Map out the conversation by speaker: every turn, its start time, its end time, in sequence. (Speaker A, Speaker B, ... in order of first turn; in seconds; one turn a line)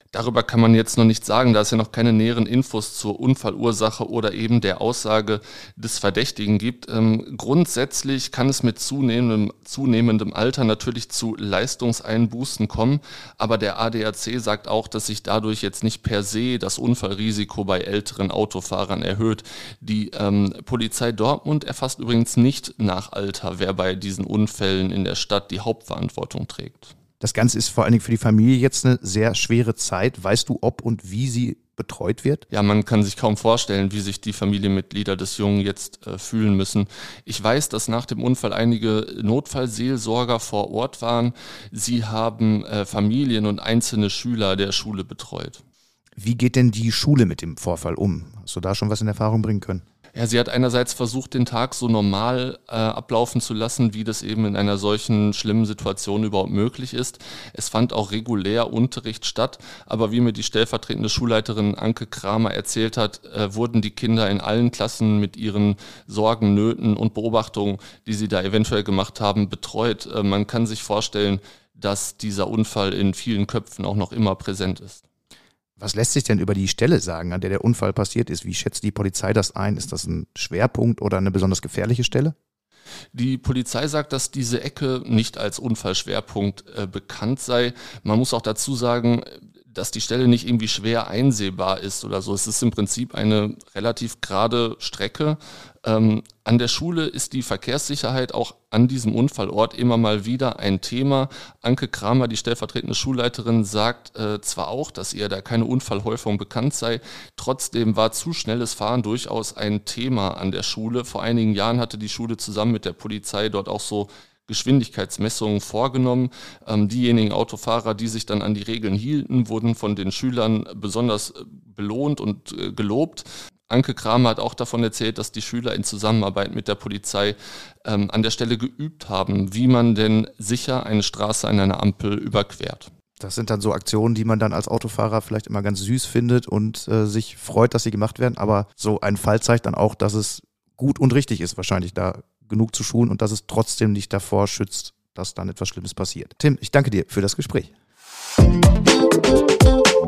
Speaker A: 0.1-26.9
Speaker B: 27.2-32.4
Speaker A: 32.5-45.6
Speaker B: 46.2-49.8
Speaker A: 50.1-75.0
Speaker B: 75.8-82.3
Speaker A: 83.1-132.9
Speaker B: 133.2-147.7